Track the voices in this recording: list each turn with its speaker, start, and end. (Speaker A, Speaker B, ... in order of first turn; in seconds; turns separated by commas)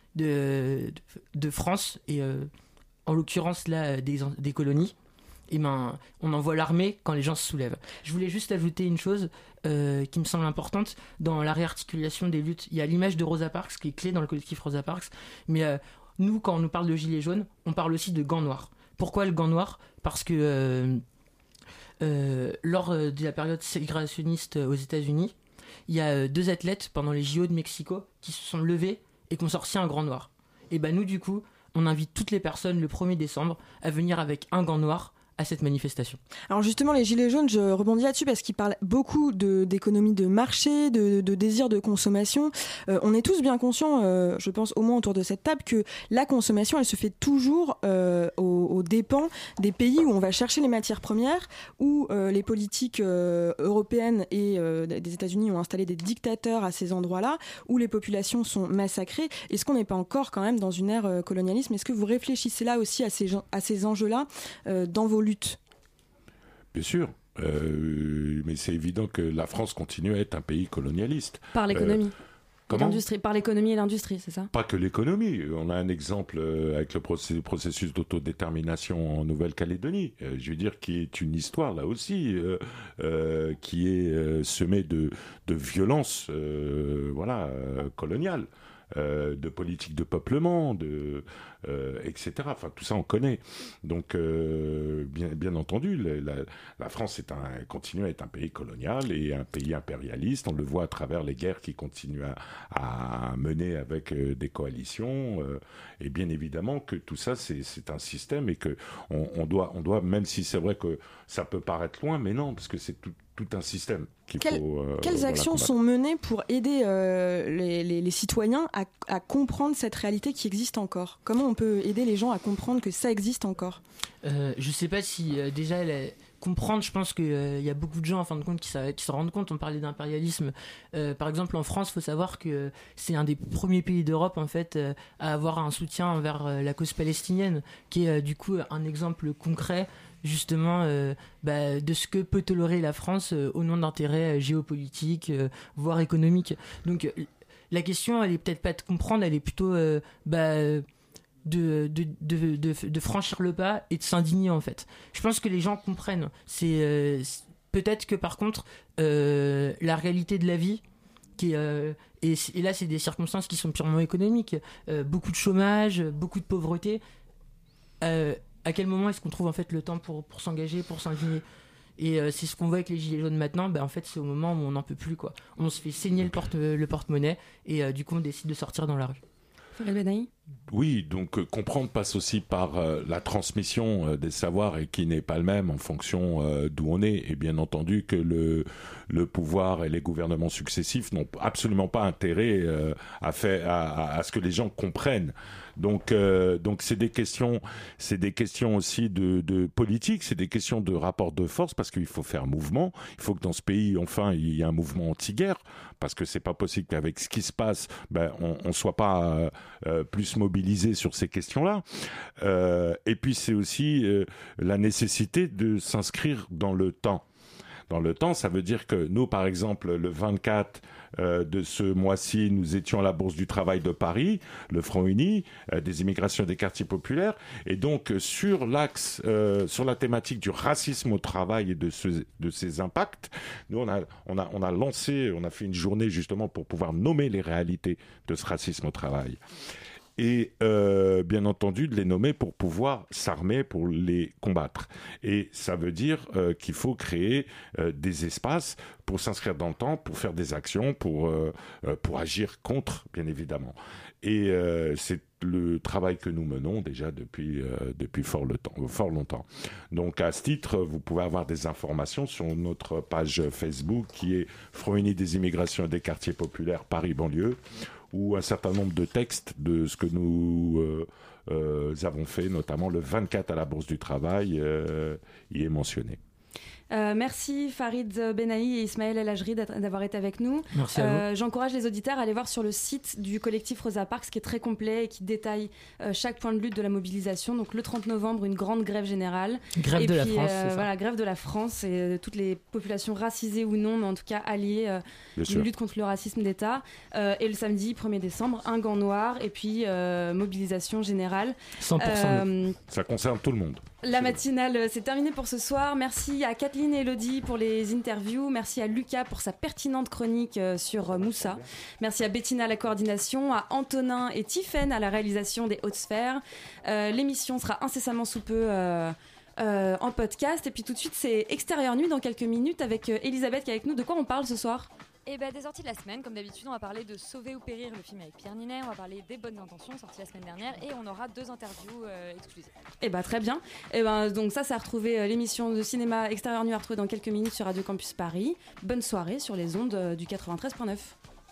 Speaker A: 0.1-2.5, Speaker A: 3.1-4.9, Speaker A: 5.5-21.0, Speaker A: 22.0-25.4, Speaker A: 25.9-36.2, Speaker B: 36.5-65.6, Speaker C: 66.7-72.0, Speaker D: 71.5-72.2, Speaker C: 72.7-73.0, Speaker D: 72.7-74.5, Speaker C: 74.5-115.7, Speaker B: 114.4-123.8, Speaker A: 124.2-150.9, Speaker A: 151.4-160.8, Speaker A: 161.4-167.0, Speaker A: 168.0-171.4, Speaker A: 172.0-179.2, Speaker D: 179.8-180.3, Speaker C: 180.7-211.8, Speaker C: 212.4-217.2, Speaker C: 217.9-239.4, Speaker C: 240.2-276.2, Speaker D: 276.9-302.8, Speaker A: 280.7-281.2, Speaker A: 289.8-290.9, Speaker C: 295.4-295.7, Speaker A: 301.8-302.5, Speaker C: 302.9-304.4, Speaker D: 304.0-324.9, Speaker C: 311.2-311.6, Speaker E: 325.3-332.7, Speaker D: 333.0-341.2